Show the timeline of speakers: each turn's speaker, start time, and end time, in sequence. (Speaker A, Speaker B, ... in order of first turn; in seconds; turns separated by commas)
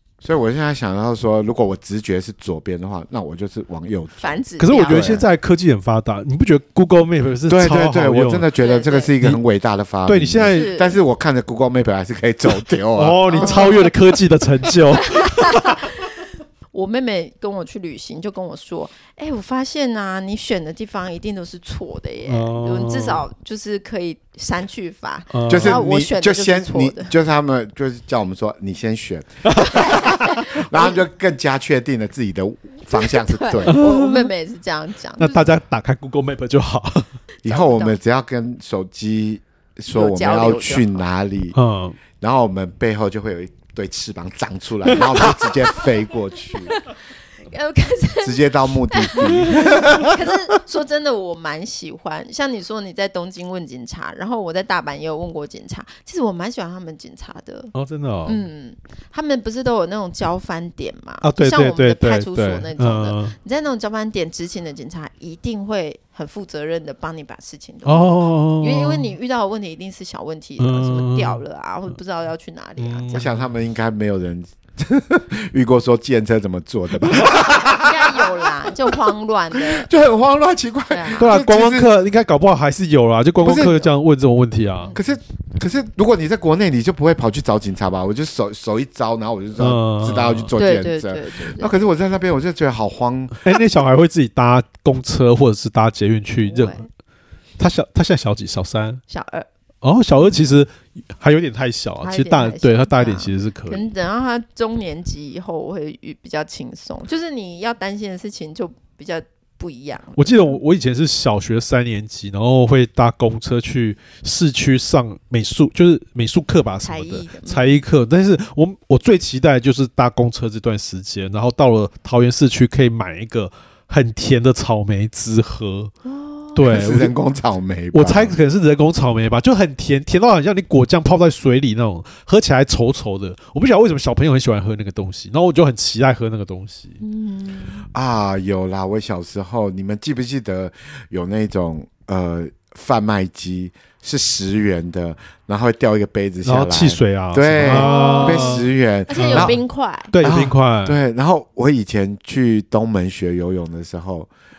Speaker A: 0.2-4.2, Speaker B: 4.2-5.2, Speaker C: 4.6-8.5, Speaker A: 4.8-5.2, Speaker A: 7.5-13.7, Speaker B: 8.6-9.1, Speaker C: 10.1-10.7, Speaker B: 10.5-11.0, Speaker C: 12.9-15.8, Speaker B: 13.3-13.9, Speaker B: 15.2-27.1, Speaker C: 22.3-23.2, Speaker C: 25.3-25.8, Speaker A: 25.5-33.8, Speaker C: 29.5-29.8, Speaker B: 29.8-30.9, Speaker B: 32.9-35.5, Speaker C: 33.6-34.3, Speaker C: 35.2-37.1, Speaker B: 37.4-38.0, Speaker A: 37.4-41.6, Speaker B: 39.9-41.0, Speaker C: 41.5-42.0, Speaker A: 42.2-46.8, Speaker B: 46.5-46.9, Speaker B: 47.5-57.7, Speaker A: 48.2-50.3, Speaker C: 57.7-58.4, Speaker B: 58.2-73.3, Speaker C: 61.2-63.3, Speaker C: 67.8-69.2, Speaker C: 70.6-71.4, Speaker C: 72.8-73.4, Speaker A: 73.1-78.4, Speaker B: 77.5-79.9, Speaker A: 79.6-81.9, Speaker B: 80.9-81.4, Speaker C: 81.2-84.9, Speaker A: 83.4-83.9, Speaker A: 84.9-93.6, Speaker C: 89.6-90.5, Speaker B: 90.5-91.8, Speaker C: 93.3-96.8, Speaker B: 96.4-96.9, Speaker C: 97.6-99.0, Speaker B: 99.1-99.5, Speaker C: 99.8-103.8, Speaker B: 102.0-110.6, Speaker C: 110.2-125.9, Speaker B: 116.8-117.8, Speaker B: 126.0-126.6, Speaker C: 126.5-127.1, Speaker A: 126.6-128.4, Speaker C: 127.9-137.0, Speaker B: 137.0-137.9, Speaker A: 137.9-149.6, Speaker C: 146.4-149.6, Speaker B: 147.6-150.1, Speaker C: 150.1-151.0, Speaker A: 150.2-154.3